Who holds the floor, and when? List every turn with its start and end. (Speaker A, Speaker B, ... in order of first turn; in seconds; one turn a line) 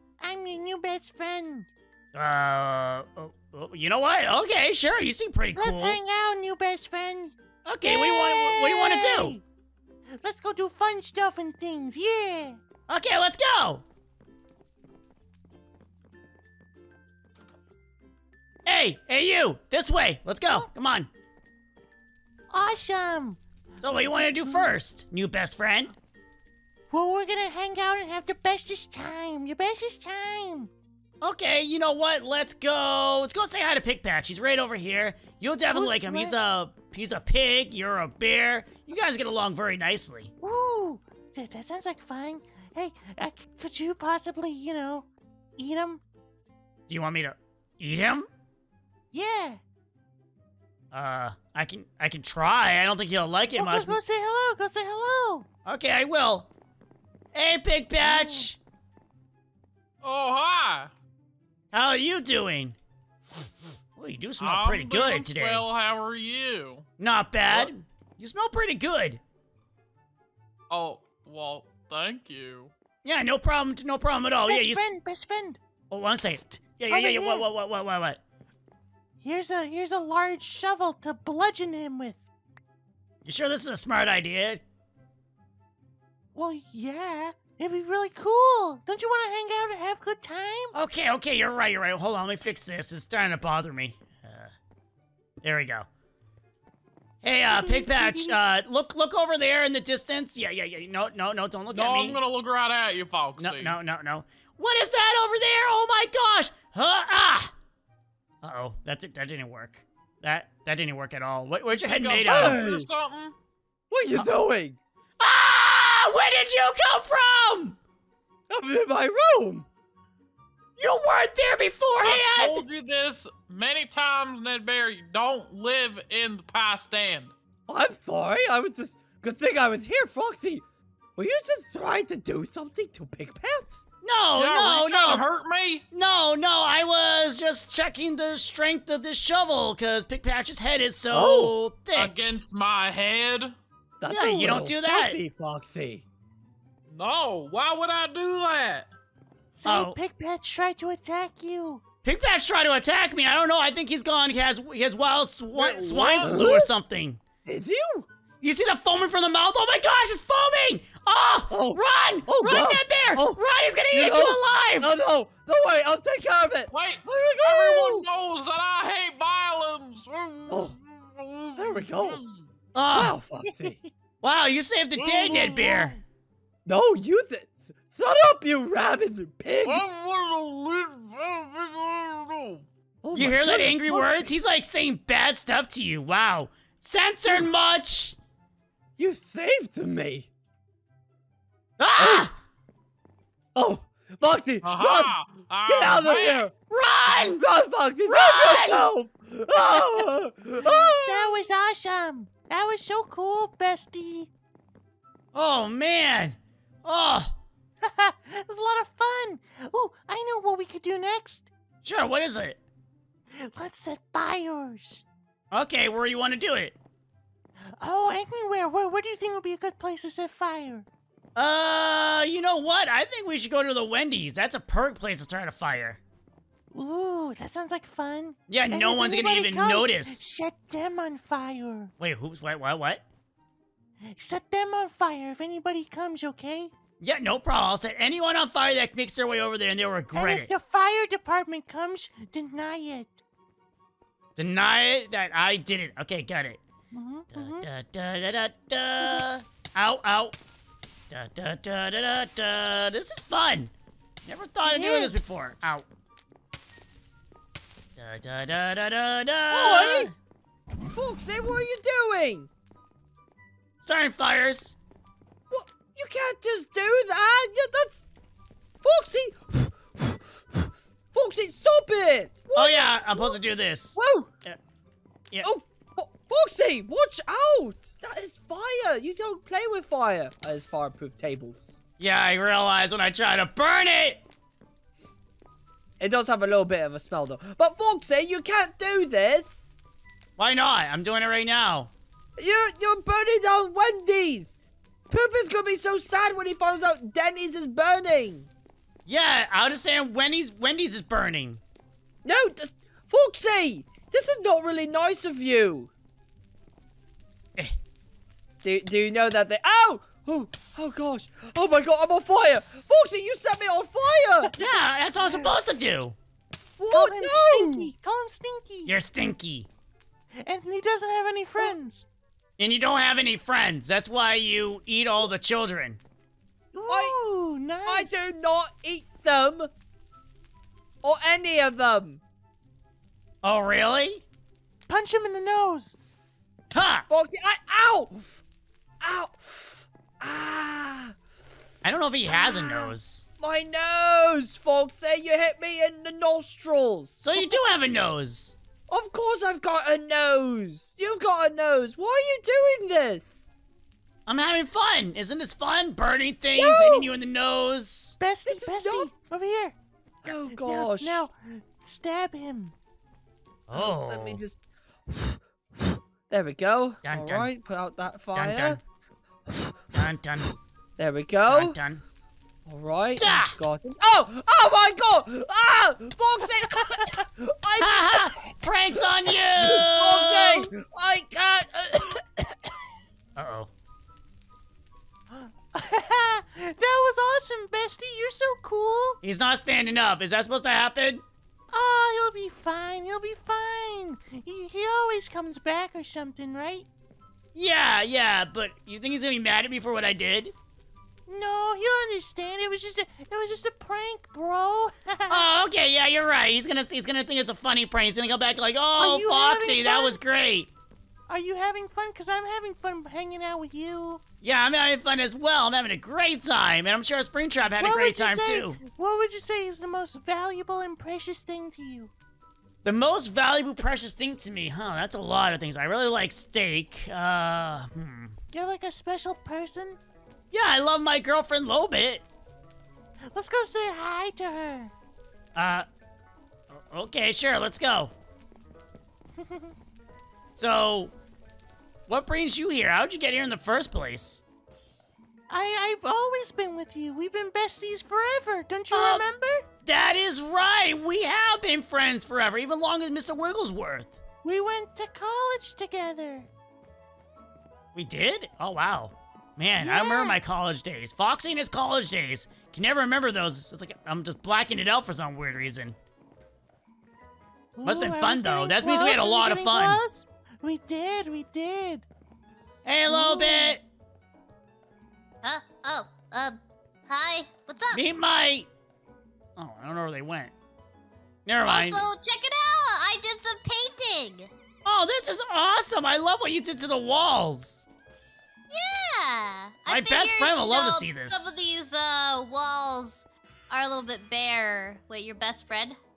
Speaker A: 0.2-1.7
Speaker B: 2.1-6.0
Speaker A: 5.5-9.4
Speaker B: 7.6-9.4
Speaker A: 10.2-12.6
Speaker B: 12.9-13.8
Speaker B: 18.6-21.1
Speaker A: 22.5-24.6
Speaker B: 23.8-25.9
Speaker A: 26.9-30.7
Speaker B: 31.2-40.3
Speaker A: 35.7-36.3
Speaker A: 40.4-46.0
Speaker B: 46.9-48.3
Speaker A: 49.1-49.6
Speaker B: 50.9-54.0
Speaker A: 53.5-55.5
Speaker B: 55.6-56.5
Speaker B: 57.3-58.6
Speaker A: 58.0-58.5
Speaker C: 60.0-60.9
Speaker B: 61.7-62.8
Speaker B: 64.0-65.6
Speaker C: 64.4-66.8
Speaker B: 67.0-69.2
Speaker C: 70.7-72.7
Speaker B: 73.0-74.8
Speaker A: 74.5-75.6
Speaker B: 75.9-78.2
Speaker A: 76.3-77.5
Speaker A: 79.2-82.2
Speaker B: 83.2-84.6
Speaker A: 86.3-90.7
Speaker B: 90.7-94.5
Speaker B: 95.4-95.9
Speaker B: 97.2-102.2
Speaker A: 97.5-98.4
Speaker C: 101.7-103.8
Speaker B: 103.4-107.5
Speaker B: 108.4-112.6
Speaker C: 111.7-113.3
Speaker D: 112.2-112.9
Speaker D: 113.9-114.8
Speaker B: 115.2-117.8
Speaker D: 118.5-119.7
Speaker B: 120.8-122.7
Speaker C: 122.0-127.3
Speaker D: 127.7-130.6
Speaker D: 131.2-133.8
Speaker B: 134.0-135.2
Speaker C: 134.3-135.8
Speaker B: 135.9-142.2
Speaker D: 141.1-141.5
Speaker C: 141.9-143.5
Speaker D: 144.0-146.0
Speaker B: 144.1-145.2
Speaker C: 146.9-148.9
Speaker A: 149.6-151.8
Speaker B: 149.6-150.0
Speaker B: 152.0-157.2
Speaker C: 155.5-156.5
Speaker D: 156.2-156.7
Speaker D: 157.4-158.1
Speaker B: 158.4-164.9
Speaker D: 161.5-168.1
Speaker C: 166.7-172.5
Speaker D: 170.5-170.8
Speaker D: 171.6-172.2
Speaker B: 172.7-173.2
Speaker D: 172.9-173.8
Speaker B: 174.2-176.0
Speaker C: 175.0-176.0
Speaker D: 176.6-179.8
Speaker C: 179.6-182.7
Speaker D: 183.0-184.3
Speaker B: 183.1-188.2
Speaker D: 189.0-190.3
Speaker B: 191.8-192.3
Speaker D: 192.0-192.3
Speaker D: 193.5-195.1
Speaker C: 194.6-196.4
Speaker D: 195.7-196.5
Speaker B: 196.7-197.4
Speaker D: 197.1-201.5
Speaker B: 198.1-198.9
Speaker A: 200.6-204.3
Speaker B: 205.3-207.3
Speaker A: 207.8-211.5
Speaker B: 211.8-212.6
Speaker A: 213.4-215.0
Speaker B: 215.5-216.8
Speaker A: 217.8-220.8
Speaker B: 221.3-226.0
Speaker A: 226.7-231.9
Speaker B: 228.5-230.2
Speaker B: 232.0-233.0
Speaker A: 234.1-236.7
Speaker B: 237.0-240.5
Speaker A: 240.1-243.2
Speaker B: 244.3-246.6
Speaker A: 246.9-247.7
Speaker B: 247.3-250.4
Speaker B: 251.1-253.7
Speaker B: 254.2-255.8
Speaker A: 254.7-255.2
Speaker B: 257.9-260.1
Speaker D: 259.5-260.1
Speaker D: 260.9-262.5
Speaker B: 263.8-264.7
Speaker D: 265.5-268.1
Speaker D: 268.8-273.4
Speaker B: 272.5-274.6
Speaker D: 273.9-274.3
Speaker D: 275.4-281.8
Speaker B: 282.0-284.2
Speaker D: 286.0-289.7
Speaker B: 290.4-291.9
Speaker D: 292.4-294.5
Speaker D: 295.1-298.5
Speaker B: 299.1-301.6
Speaker D: 302.2-305.9
Speaker D: 308.6-314.5
Speaker B: 314.6-316.1
Speaker D: 316.8-317.9
Speaker A: 316.9-318.9
Speaker B: 318.9-319.7
Speaker A: 320.4-322.0
Speaker B: 322.6-326.0
Speaker A: 326.7-328.1
Speaker D: 326.9-327.2
Speaker D: 327.8-329.7
Speaker D: 331.0-332.2
Speaker B: 333.4-334.2
Speaker A: 334.9-335.9
Speaker B: 336.7-337.1
Speaker D: 337.1-338.4
Speaker D: 339.0-341.2
Speaker B: 341.8-343.2
Speaker A: 342.3-342.9
Speaker D: 343.4-347.2
Speaker B: 347.2-348.6
Speaker D: 348.9-353.5
Speaker B: 354.2-358.2
Speaker A: 356.6-357.1
Speaker A: 358.2-359.8
Speaker D: 358.4-359.1
Speaker D: 360.2-361.2
Speaker A: 360.5-362.7
Speaker B: 363.7-364.4
Speaker D: 363.7-368.8
Speaker B: 367.0-367.5
Speaker B: 368.3-368.8
Speaker D: 369.5-370.0
Speaker B: 369.9-370.5
Speaker D: 371.0-371.8
Speaker B: 371.5-372.0
Speaker D: 372.6-378.4
Speaker B: 373.1-373.6
Speaker B: 377.8-380.7
Speaker D: 379.6-382.7
Speaker B: 383.4-383.7
Speaker A: 385.3-389.2
Speaker B: 389.2-391.2
Speaker A: 391.7-396.9
Speaker B: 397.5-400.5
Speaker A: 401.3-405.4
Speaker B: 405.3-410.7
Speaker A: 409.0-410.2
Speaker A: 411.3-414.2
Speaker B: 414.4-418.8
Speaker A: 417.8-422.1
Speaker B: 422.8-428.3
Speaker A: 428.5-430.0
Speaker B: 430.5-432.2
Speaker A: 433.3-434.9
Speaker B: 435.6-435.9
Speaker B: 436.7-438.1
Speaker A: 439.4-439.7
Speaker B: 440.5-441.1
Speaker B: 442.1-444.4
Speaker A: 445.5-449.6
Speaker B: 448.9-449.2
Speaker B: 449.8-454.1
Speaker A: 454.4-456.5
Speaker B: 457.9-465.9
Speaker A: 459.8-460.4
Speaker A: 467.8-472.0
Speaker B: 467.8-470.0
Speaker B: 472.8-473.8
Speaker A: 473.1-473.8
Speaker E: 475.4-476.6
Speaker E: 477.1-478.0
Speaker B: 477.9-478.7
Speaker B: 479.6-480.5
Speaker B: 481.4-482.0
Speaker E: 481.6-484.5
Speaker B: 484.8-487.8
Speaker E: 488.7-496.0
Speaker B: 489.9-491.5